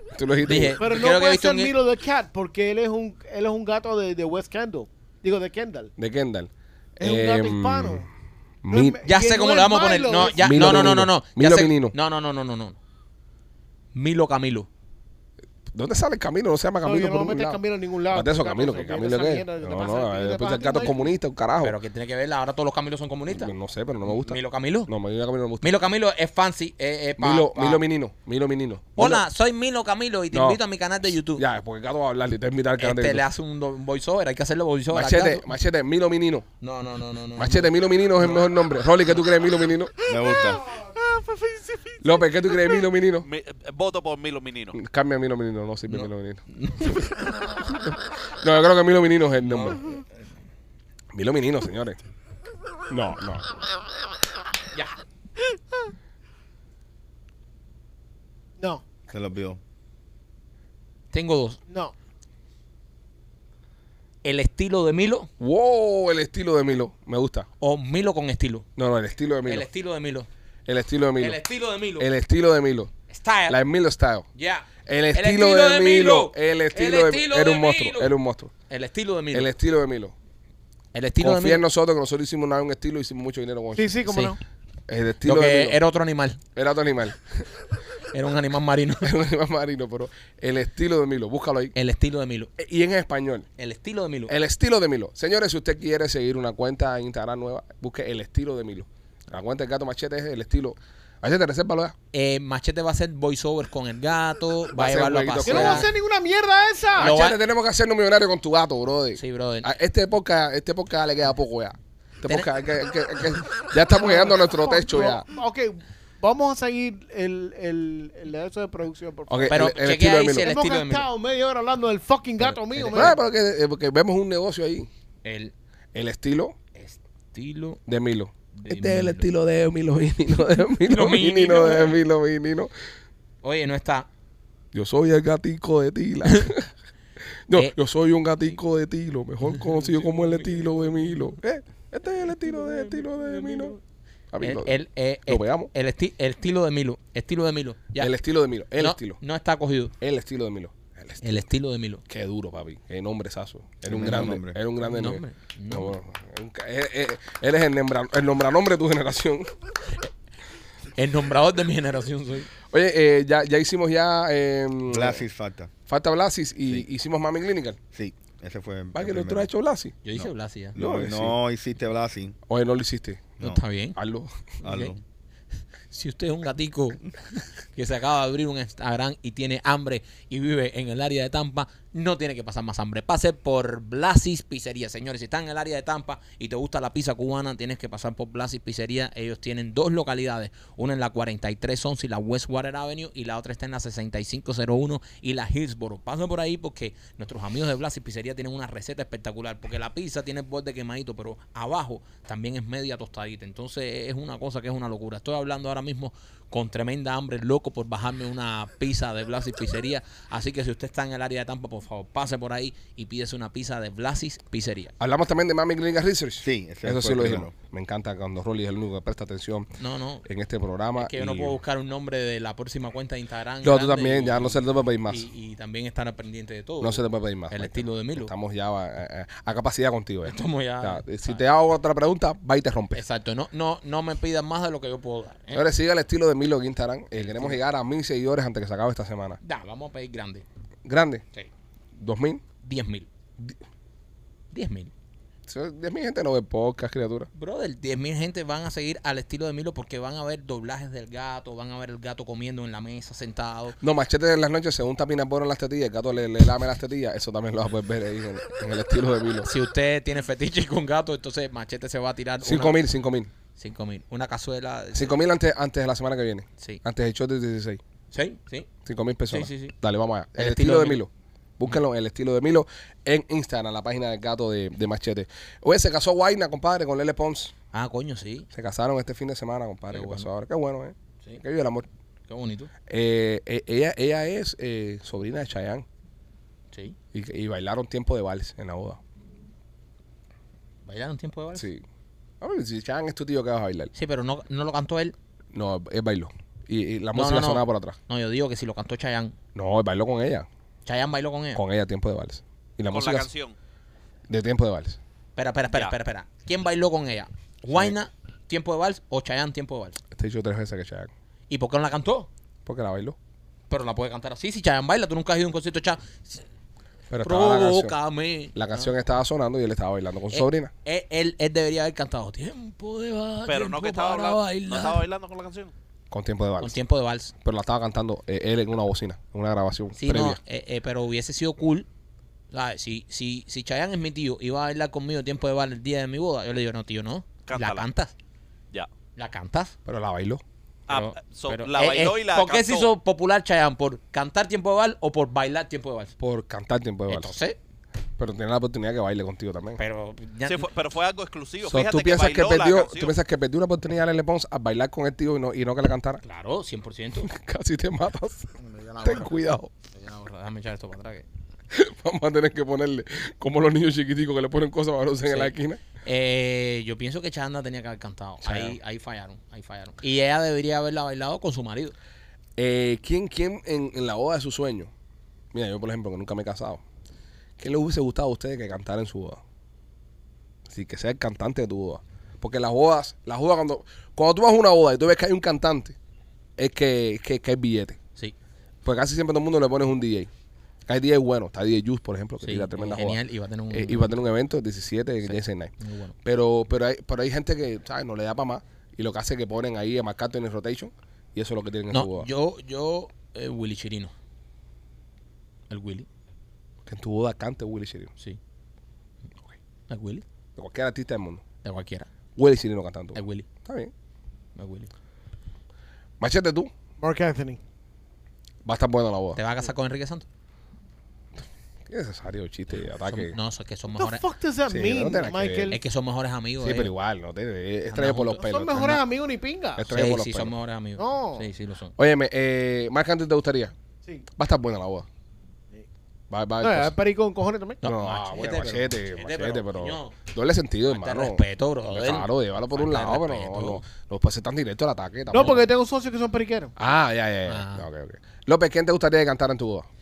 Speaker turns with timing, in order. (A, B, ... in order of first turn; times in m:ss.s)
0:00.1-0:00.8 A
0:00.4-0:01.8 B
0:00.8-0:05.9 C
0:06.0-0:08.1 A
0:07.0-0:08.1 C
0:08.6-0:09.0 A
0:08.7-0:11.0 C
0:09.0-0:12.8 B
0:10.4-0:12.0 A
0:13.9-0:14.7 B
0:15.7-0:21.8 A
0:16.8-0:21.0 C
0:21.6-0:23.5 B
0:23.3-0:25.7 A
0:24.0-0:24.9 B
0:25.6-0:27.8 B
0:27.2-0:29.2 A
0:29.0-0:31.4 B
0:30.3-0:30.6 A
0:31.2-0:33.3 A
0:32.8-0:35.5 B
0:34.9-0:36.5 A
0:36.6-0:38.4 B
0:37.4-0:40.0 A
0:40.1-0:40.6 D
0:42.0-0:43.3 A
0:43.2-0:44.8 E
0:44.7-0:46.4 A
0:45.9-0:47.0 B
0:48.4-0:49.8 A
0:49.4-0:50.0 B
0:51.1-0:52.0 A
0:52.9-0:53.5 A
0:59.1-0:59.6 D
1:01.1-1:01.6 B
1:04.2-1:05.3 B
1:05.4-1:07.5 A
1:07.6-1:08.7 B
1:08.8-1:09.7 A
1:09.5-1:10.3 B
1:10.7-1:11.4 A
1:11.2-1:12.1 B
1:12.0-1:12.9 A
1:13.1-1:13.6 B
1:13.5-1:14.3 A
1:14.4-1:18.2 B
1:14.9-1:18.5 A
1:18.7-1:19.5 B
1:19.3-1:20.1 A
1:20.9-1:21.6 B
1:21.2-1:24.0 A
1:23.8-1:24.4 C
1:24.1-1:24.3 B
1:24.9-1:25.8 A
1:25.2-1:26.4 B
1:26.6-1:27.4 A
1:28.1-1:29.1 B
1:29.0-1:31.7 A
1:31.8-1:32.5 B
1:32.6-1:33.5 A
1:33.6-1:34.4 B
1:34.3-1:42.0 A
1:42.1-1:45.9 B
1:44.7-1:45.9 A
1:45.4-1:47.2 C
1:47.0-1:55.3 A
1:47.0-1:47.4 B
1:49.2-1:49.7 B
1:54.0-2:03.2 C
1:59.3-2:00.5 A
1:59.5-2:01.1 B
2:02.4-2:03.2 B
2:02.9-2:04.9 A
2:05.2-2:05.5 B
2:05.9-2:06.6 A
2:06.8-2:07.8 B
2:07.9-2:12.7 A
2:08.6-2:09.3 B
2:10.8-2:12.0 B
2:13.4-2:14.1 B
2:14.7-2:16.7 A
2:17.5-2:23.8 A
2:19.6-2:20.8 B
2:22.5-2:23.8 B
2:24.3-2:25.7 A
2:24.4-2:28.1 B
2:28.0-2:29.2 A
2:28.8-2:29.9 B
2:30.0-2:31.4 A
2:31.2-2:32.0 B
2:32.1-2:39.5 A
2:33.9-2:34.6 D
2:34.8-2:36.0 B
2:41.0-2:42.5 B
2:42.7-2:45.2 A
2:44.9-2:45.7 D
2:45.9-2:47.8 A
2:47.9-2:49.5 D
2:48.9-2:50.0 A
2:50.0-2:50.8 B
2:50.2-2:52.4 D
2:50.8-2:51.4 A
2:52.5-2:53.4 A
2:53.4-2:54.0 B
2:54.0-2:54.4 A
2:54.6-2:54.9 B
2:54.6-2:55.0 D
2:55.9-3:34.9 B
3:35.0-3:39.7 A
3:36.4-3:37.5 D
3:39.8-3:40.2 B
3:40.2-3:41.6 A
3:41.0-3:48.3 B
3:43.6-3:45.3 A
3:46.8-3:53.0 A
3:50.3-3:51.4 B
3:53.0-3:55.6 B
3:55.5-3:59.4 A
3:57.2-3:57.6 B
3:59.4-4:00.4 B
4:00.8-4:01.2 A
4:02.0-4:02.4 A
4:02.6-4:03.1 B
4:04.5-4:04.9 B
4:05.5-4:07.3 A
4:07.4-4:13.8 B
4:13.8-4:19.5 A
4:19.4-4:22.8 B
4:22.4-4:23.3 A
4:23.6-4:25.2 B
4:24.9-4:27.8 A
4:28.1-4:28.7 B
4:28.8-4:37.5 A
4:29.3-4:29.8 B
4:30.4-4:31.0 B
4:37.7-4:38.5 B
4:38.5-4:41.9 A
4:39.9-4:40.3 B
4:42.3-4:42.7 B
4:42.9-4:45.8 A
4:46.7-4:47.0 B
4:47.1-4:49.0 A
4:50.8-4:51.7 B
4:51.6-4:51.8 A
4:52.4-4:53.9 A
4:54.0-4:55.2 B
4:55.5-4:58.0 A
4:57.1-4:59.4 B
4:59.6-5:00.5 A
5:00.9-5:01.6 B
5:01.6-5:03.3 A
5:02.9-5:03.6 E
5:04.3-5:05.0 A
5:05.4-5:10.0 B
5:10.1-5:11.1 A
5:11.5-5:12.3 B
5:12.7-5:13.2 A
5:13.7-5:16.4 B
5:17.1-5:18.0 A
5:17.2-5:18.9 B
5:18.5-5:20.7 A
5:20.3-5:25.0 B
5:23.5-5:25.7 E
5:26.1-5:26.8 A
5:26.6-5:27.3 B
5:27.4-5:30.4 A
5:30.0-5:31.9 B
5:32.5-5:38.1 B
5:37.5-5:37.9 E
5:39.2-5:39.8 B
5:39.8-5:40.4 A
5:40.9-5:42.9 E
5:40.9-5:46.1 B
5:46.2-5:47.4 A
5:47.1-5:47.6 B
5:48.2-5:49.8 A
5:49.8-5:50.7 B
5:50.4-5:53.1 E
5:51.6-5:56.2 A
5:56.2-5:57.3 B
5:57.2-5:59.7 A
5:58.6-5:59.3 B
5:59.9-6:01.2 B
6:01.7-6:05.8 A
6:05.3-6:12.0 B
6:08.4-6:08.8 A
6:12.6-6:14.9 A
6:15.5-6:16.8 A
6:17.6-6:19.4 A
6:20.7-6:26.0 A
6:26.6-6:28.0 A
6:28.8-6:30.3 A
6:30.9-6:42.3 A
6:32.4-6:34.2 B
6:35.2-6:36.2 B
6:41.9-6:44.1 B
6:45.7-6:46.1 B
6:46.8-6:48.1 A
6:49.9-6:50.2 B
6:50.6-6:51.4 A
6:51.6-6:52.1 B
6:52.4-6:53.9 A
6:53.2-6:53.4 B
6:54.6-6:54.9 B
6:56.2-6:56.7 A
6:57.0-6:57.6 C
6:58.6-6:59.4 A
6:59.4-7:00.3 B
7:01.9-7:03.4 A
7:03.0-7:04.2 B
7:04.0-7:05.8 C
7:04.7-7:05.8 A
7:05.7-7:06.9 B
7:06.6-7:09.0 A
7:07.9-7:08.4 B
7:08.4-7:09.9 C
7:09.8-7:10.5 A
7:09.9-7:11.9 B
7:11.0-7:11.5 C
7:12.0-7:13.7 A
7:14.4-7:15.1 A
7:16.3-7:17.0 A
7:16.6-7:17.8 C
7:17.8-7:20.2 B
7:17.8-7:25.6 A
7:20.9-7:23.8 B
7:25.3-7:26.7 C
7:26.8-7:29.9 A
7:27.5-7:27.9 B